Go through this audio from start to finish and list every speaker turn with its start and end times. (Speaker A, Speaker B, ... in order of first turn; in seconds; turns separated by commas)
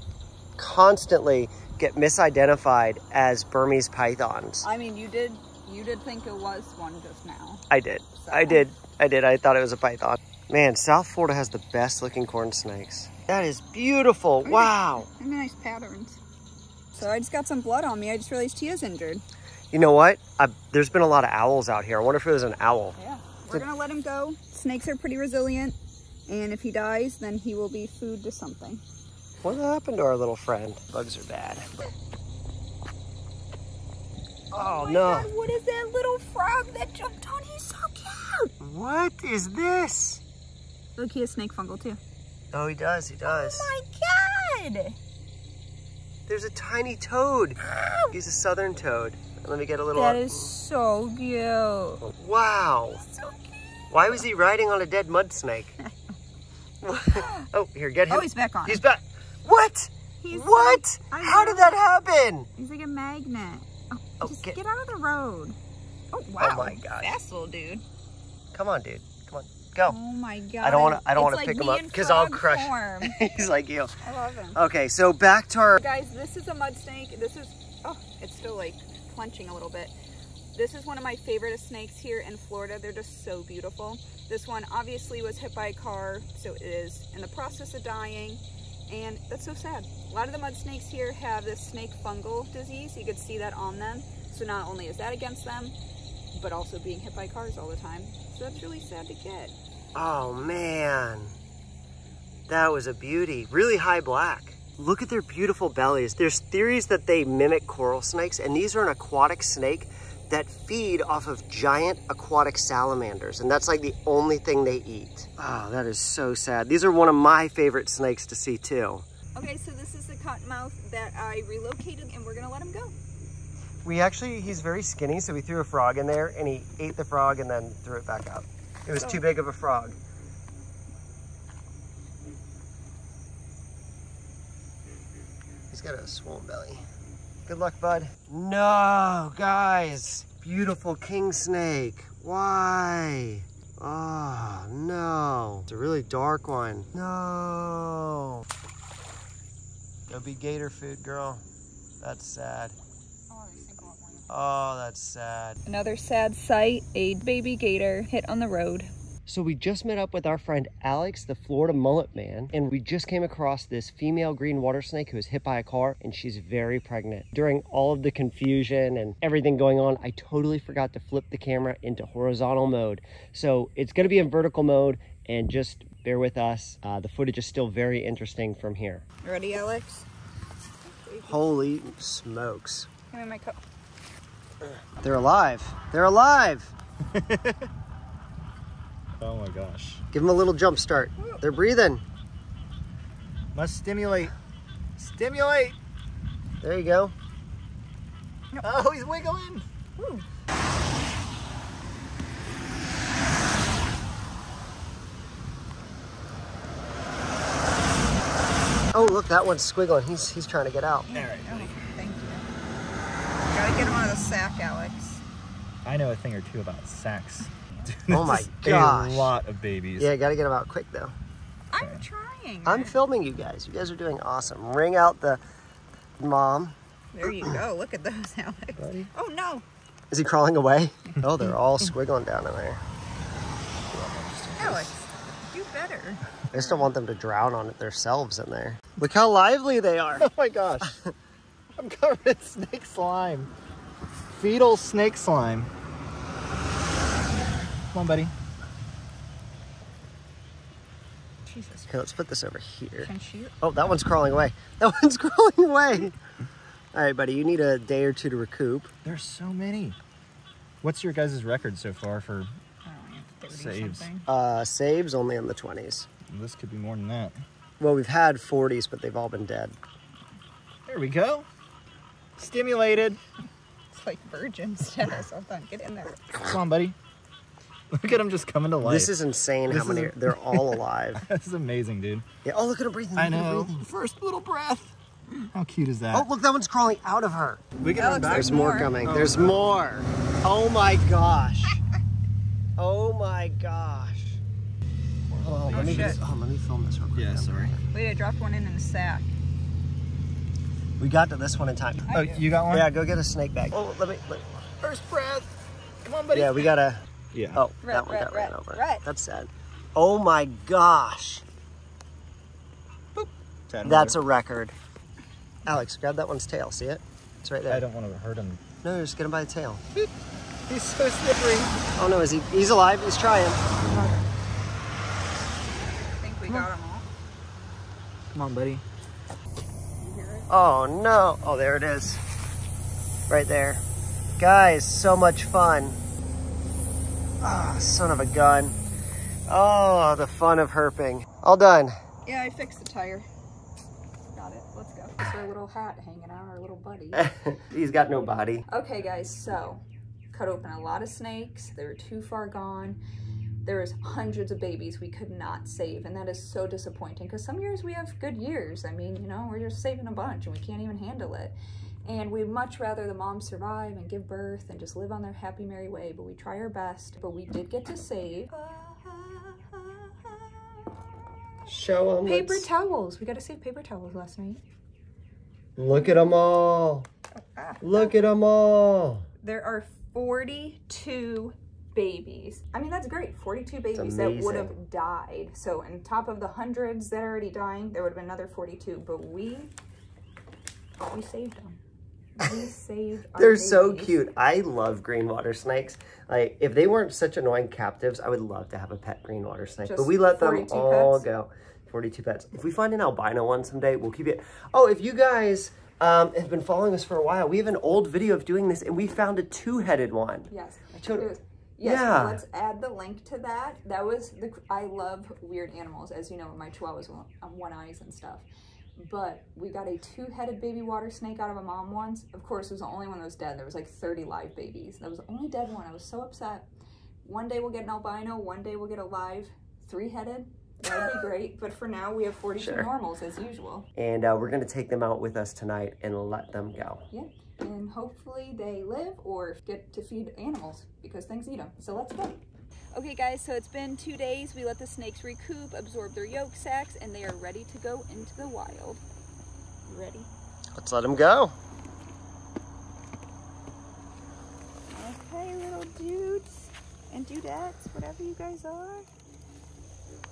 Speaker A: 0.6-4.7, Speaker B: 4.6-7.7, Speaker A: 7.7-15.1, Speaker B: 8.2-8.6, Speaker B: 14.4-16.2, Speaker B: 16.9-19.2, Speaker A: 19.7-23.0, Speaker B: 23.0-28.8, Speaker A: 29.4-31.8, Speaker A: 34.5-35.3, Speaker B: 34.5-38.5, Speaker A: 38.6-40.2, Speaker B: 41.0-42.0, Speaker A: 42.5-43.7, Speaker B: 43.2-45.0, Speaker A: 46.3-47.6, Speaker B: 47.6-48.1, Speaker A: 48.1-50.5, Speaker B: 49.9-52.0, Speaker A: 52.0-53.0, Speaker B: 53.0-54.2, Speaker A: 53.9-55.8, Speaker A: 56.8-62.5, Speaker B: 57.1-57.5, Speaker B: 58.1-58.8, Speaker B: 60.2-61.8, Speaker B: 62.5-65.5, Speaker A: 64.2-64.6, Speaker B: 66.1-67.8, Speaker A: 66.4-67.1, Speaker A: 68.5-70.0, Speaker B: 69.8-73.3, Speaker A: 70.6-74.0, Speaker B: 74.0-74.6, Speaker A: 74.5-75.8, Speaker B: 75.8-79.9, Speaker B: 80.5-95.8, Speaker B: 96.3-99.5, Speaker A: 99.9-101.3, Speaker A: 102.5-119.1, Speaker B: 119.3-122.9, Speaker A: 123.8-129.9, Speaker B: 128.9-129.2, Speaker A: 135.7-136.8, Speaker A: 137.4-148.4, Speaker A: 150.1-151.4, Speaker A: 152.0-152.8, Speaker B: 153.3-154.3, Speaker A: 154.3-155.6, Speaker B: 155.6-158.9, Speaker A: 159.3-179.0, Speaker B: 179.2-180.1, Speaker B: 180.8-181.4, Speaker A: 181.2-182.9, Speaker B: 183.1-183.6, Speaker A: 185.0-186.7, Speaker C: 187.1-187.7, Speaker C: 189.2-190.0, Speaker A: 190.1-192.0, Speaker B: 191.2-191.4, Speaker C: 193.5-194.3, Speaker C: 195.0-195.8, Speaker A: 196.6-197.1, Speaker C: 198.6-199.6, Speaker B: 200.0-200.2, Speaker A: 208.9-211.1, Speaker B: 211.1-212.5, Speaker C: 211.1-211.8, Speaker B: 213.5-215.2, Speaker C: 215.8-220.1, Speaker A: 218.1-219.3, Speaker A: 220.0-221.1, Speaker B: 221.7-223.0, Speaker A: 222.7-225.4, Speaker A: 226.2-226.8, Speaker B: 227.1-229.6, Speaker A: 228.8-229.1, Speaker A: 230.1-232.8, Speaker C: 233.9-234.9, Speaker B: 234.6-236.9, Speaker A: 236.5-240.3, Speaker C: 240.2-240.9, Speaker A: 240.8-241.1, Speaker C: 241.8-243.5, Speaker C: 244.3-245.7, Speaker C: 247.9-248.3, Speaker B: 251.4-251.9, Speaker A: 251.9-256.1, Speaker B: 253.0-253.5, Speaker A: 256.9-258.9, Speaker C: 259.0-260.0, Speaker C: 260.8-262.5, Speaker B: 262.8-264.3, Speaker C: 263.5-264.1, Speaker A: 264.2-266.1, Speaker C: 266.3-267.4, Speaker A: 267.8-269.8, Speaker C: 270.9-271.4, Speaker C: 272.4-273.2, Speaker B: 273.9-276.5, Speaker C: 276.3-276.9, Speaker C: 277.9-279.1, Speaker A: 278.8-281.2, Speaker C: 279.7-282.2, Speaker A: 282.4-283.8, Speaker C: 283.1-284.9, Speaker C: 285.5-286.3, Speaker A: 286.1-287.7, Speaker C: 287.8-289.7, Speaker B: 288.0-288.9, Speaker A: 288.3-291.8, Speaker A: 292.8-294.4, Speaker C: 295.3-296.2, Speaker A: 295.4-297.8, Speaker B: 295.7-296.2, Speaker C: 297.1-297.7, Speaker B: 297.9-299.3, Speaker A: 301.0-302.1, Speaker B: 302.1-302.5, Speaker C: 302.1-302.9, Speaker A: 302.7-304.6, Speaker C: 304.8-305.5, Speaker C: 306.0-306.7, Speaker A: 306.3-311.4, Speaker C: 307.3-307.6, Speaker B: 307.8-309.0, Speaker C: 313.1-314.2, Speaker A: 313.8-314.7, Speaker A: 315.6-317.8, Speaker C: 317.7-318.6, Speaker A: 318.8-319.8, Speaker C: 320.7-321.8, Speaker A: 321.9-323.6, Speaker C: 323.8-324.1, Speaker B: 326.2-327.1, Speaker C: 328.3-328.8, Speaker B: 330.0-330.5, Speaker A: 330.5-332.2, Speaker A: 333.3-333.8, Speaker A: 334.4-336.0, Speaker A: 337.4-338.8, Speaker A: 339.5-341.9, Speaker B: 342.2-343.3, Speaker B: 344.3-347.2, Speaker A: 347.1-348.6, Speaker B: 348.7-353.0, Speaker B: 353.6-370.9, Speaker A: 371.7-372.7, Speaker B: 372.2-374.6, Speaker A: 375.8-377.1, Speaker B: 375.9-376.3, Speaker B: 377.3-378.1, Speaker A: 377.8-379.2, Speaker B: 379.4-389.7, Speaker A: 383.9-384.7, Speaker B: 391.0-391.8, Speaker B: 392.4-394.2, Speaker A: 393.3-411.3, Speaker B: 399.9-401.2, Speaker B: 410.5-426.7, Speaker A: 411.8-412.4, Speaker B: 427.2-433.9, Speaker A: 432.6-432.9, Speaker A: 433.9-437.1, Speaker B: 437.1-442.4, Speaker B: 442.9-449.0, Speaker B: 449.9-450.3, Speaker A: 450.8-451.5, Speaker B: 454.9-459.1